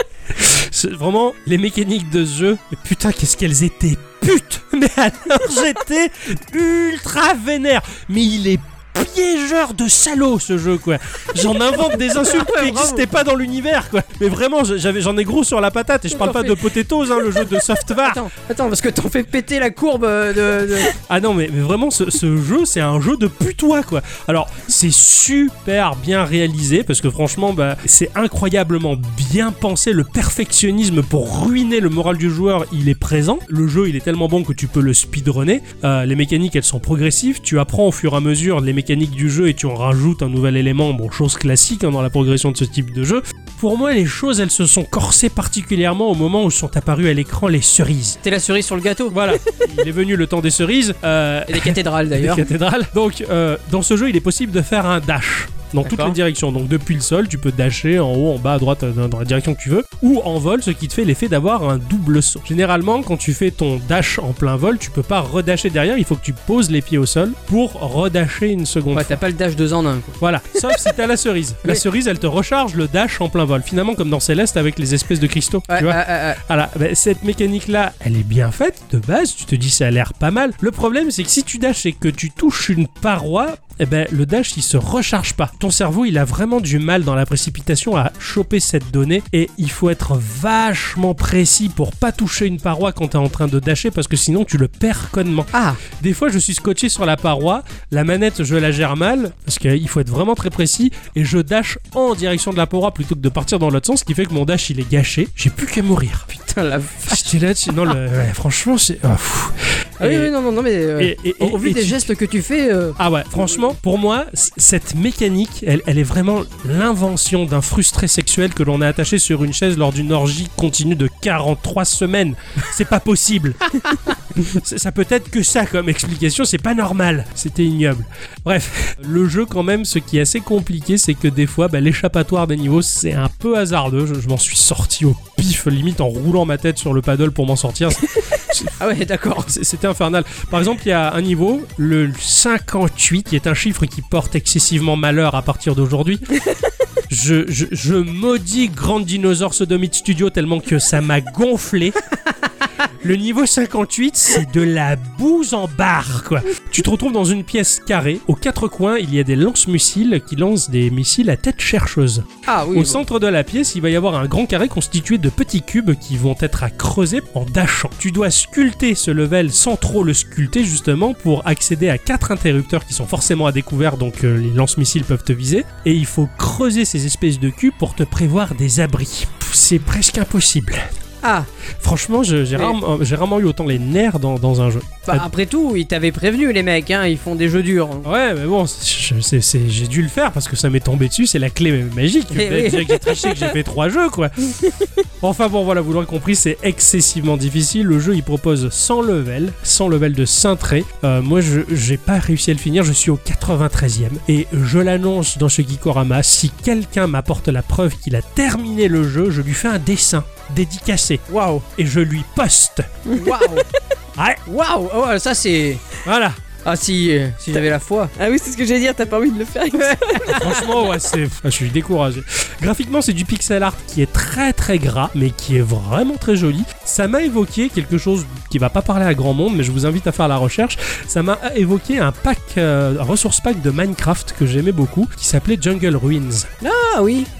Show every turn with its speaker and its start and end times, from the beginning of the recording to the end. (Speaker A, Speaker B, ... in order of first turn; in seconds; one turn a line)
Speaker A: 0.4-18.2
Speaker B: 12.1-13.1
Speaker B: 16.1-20.9
Speaker A: 20.9-48.2
Speaker B: 48.2-49.2
Speaker A: 49.1-69.2
Speaker B: 51.5-52.5
Speaker B: 55.8-56.2
Speaker B: 68.9-70.2
Speaker A: 70.2-106.3
Speaker B: 75.7-76.4
Speaker B: 95.5-95.8
Speaker B: 106.3-107.3
Speaker A: 107.1-110.3
Speaker B: 110.0-113.6
Speaker A: 111.0-112.0
Speaker A: 113.0-123.8
Speaker A: 124.4-138.7
Speaker B: 138.8-139.5
Speaker A: 139.5-146.4
Speaker A: 147.1-152.0
Speaker A: 153.0-180.9
Speaker B: 162.4-163.0
Speaker B: 181.2-181.5
Speaker A: 181.8-185.3
Speaker B: 185.1-188.1
Speaker A: 188.0-194.7
Speaker B: 192.3-193.4
Speaker A: 195.2-212.9
Speaker B: 211.3-211.7
Speaker C: 213.1-213.5
Speaker B: 213.1-213.7
Speaker A: 214.2-214.4
Speaker B: 214.4-215.8
Speaker A: 216.1-216.4
Speaker B: 216.6-218.1
Speaker C: 218.2-220.6
Speaker B: 219.7-220.6
Speaker A: 220.3-236.5
Speaker B: 236.6-237.3